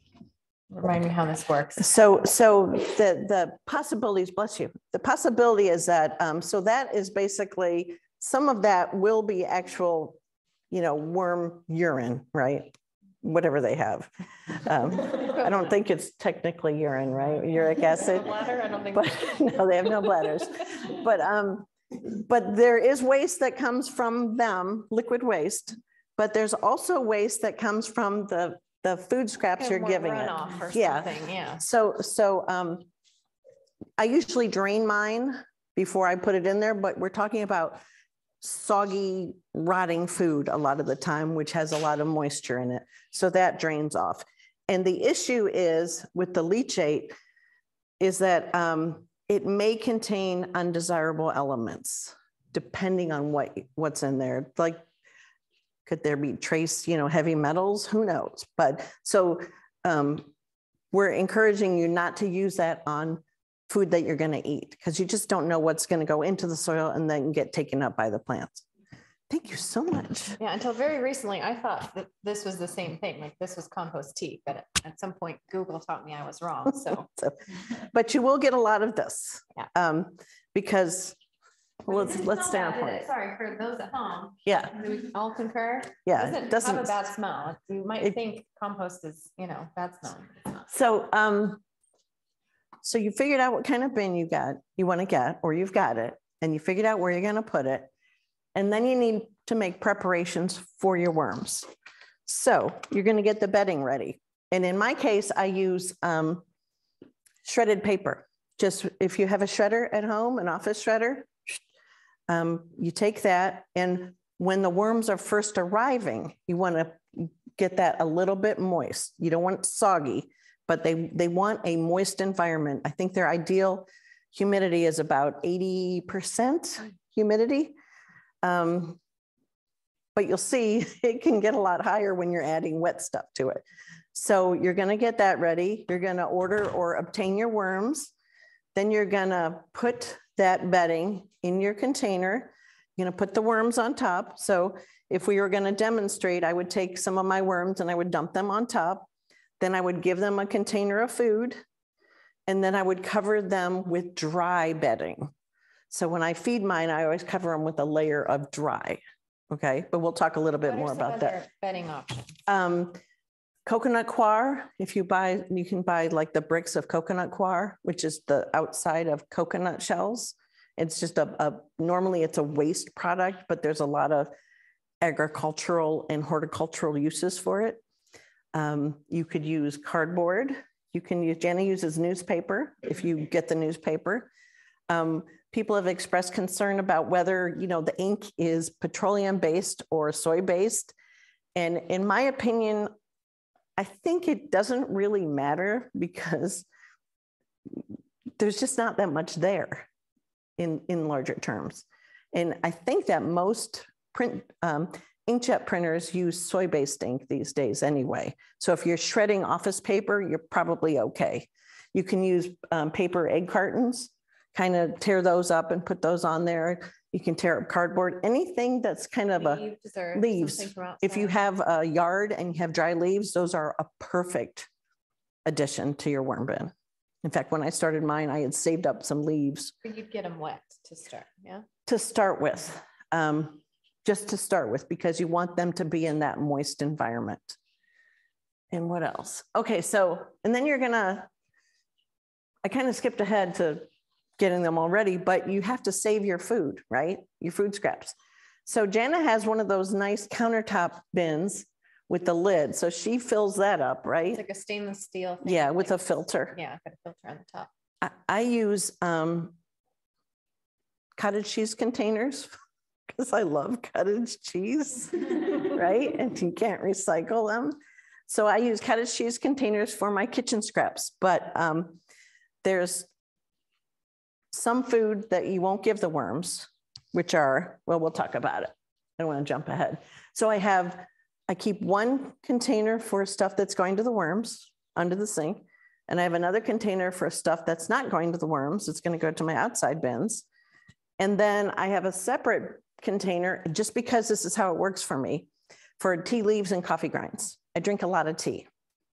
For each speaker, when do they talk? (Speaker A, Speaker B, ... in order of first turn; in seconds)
Speaker A: 0.7-2.2, 15.3-15.7, 17.8-19.2, 29.6-31.6, 70.4-77.0, 81.9-90.7, 160.6-162.3, 219.3-221.4, 229.8-231.7, 254.3-257.7
Speaker B: 1.8-10.2, 10.7-18.4, 18.9-32.9, 34.0-37.8, 38.4-47.1, 48.0-54.9, 55.9-60.3, 60.9-68.6, 69.3-70.4, 76.7-77.4, 77.9-81.2, 81.8-83.1, 84.5-84.8, 86.0-87.0, 90.7-91.6, 92.8-97.9, 98.5-101.7, 102.3-106.4, 107.4-111.6, 112.3-127.8, 128.4-129.0, 130.1-133.6, 134.1-138.1, 138.7-149.1, 149.6-151.6, 152.5-155.3, 155.9-161.4, 162.5-163.0, 163.7-174.3, 175.0-177.8, 178.5-184.3, 184.9-190.9, 191.5-192.9, 193.8-196.7, 198.4-199.9, 200.6-224.7, 225.4-226.7, 227.2-229.7, 231.8-237.6, 238.7-241.3, 242.6-243.8, 244.4-254.4, 255.4-256.6, 258.0-259.5, 261.2-262.5, 263.1-267.8, 268.3-272.0, 272.6-273.1, 274.5-290.4, 291.2-298.7